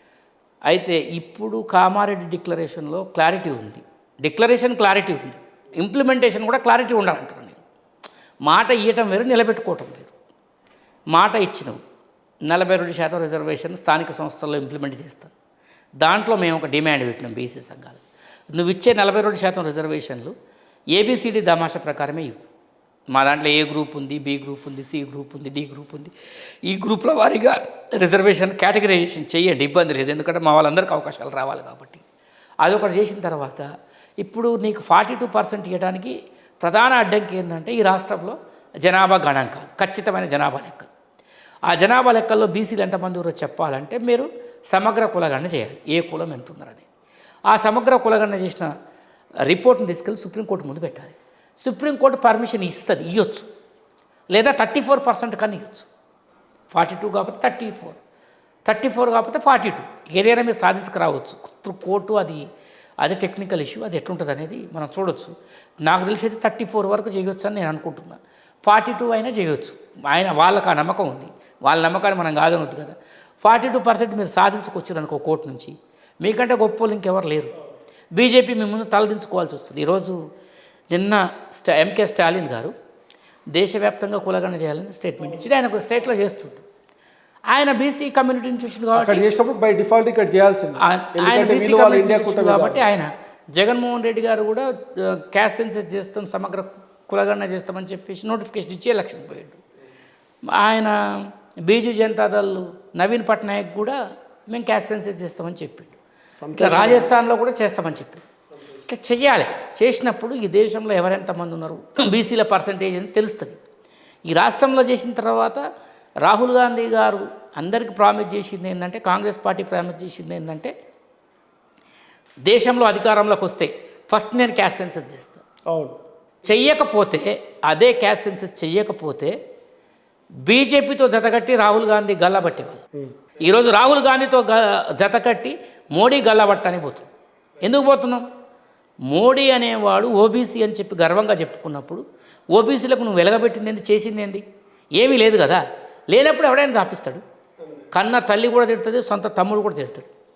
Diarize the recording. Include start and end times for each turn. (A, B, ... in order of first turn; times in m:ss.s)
0:00.7-0:07.6 A
0:08.4-0:10.1 A
0:11.1-0:11.8 A
0:12.5-0:15.3 A
0:16.0-0:18.0 A
0:18.5-0:20.3 A
0:20.9-0:22.4 A
0:23.1-0:26.1 A
0:26.7-0:32.0 A
0:32.6-0:33.6 A
0:34.2-0:40.9 A
0:41.7-0:46.9 A
0:47.5-0:48.7 A
0:49.5-0:53.5 A
0:54.3-0:55.9 A
0:56.7-0:58.0 A
0:58.7-1:02.4 A
1:03.0-1:05.3 A
1:05.8-1:17.5 A
1:18.2-1:20.2 A
1:20.9-1:22.7 A
1:23.5-1:26.6 A
1:27.5-1:29.3 A
1:29.0-1:32.8 B
1:30.8-1:39.6 A
1:40.5-1:46.0 A
1:46.4-1:47.1 B
1:46.6-1:48.2 A
1:48.8-1:53.6 A
1:54.3-1:55.6 A
1:56.2-2:00.7 A
2:02.4-2:05.4 A
2:05.7-2:06.0 B
2:06.4-2:09.4 A
2:10.5-2:12.8 A
2:13.4-2:17.1 A
2:17.6-2:18.2 A
2:19.1-2:24.4 A
2:25.0-2:27.2 A
2:27.9-2:30.1 A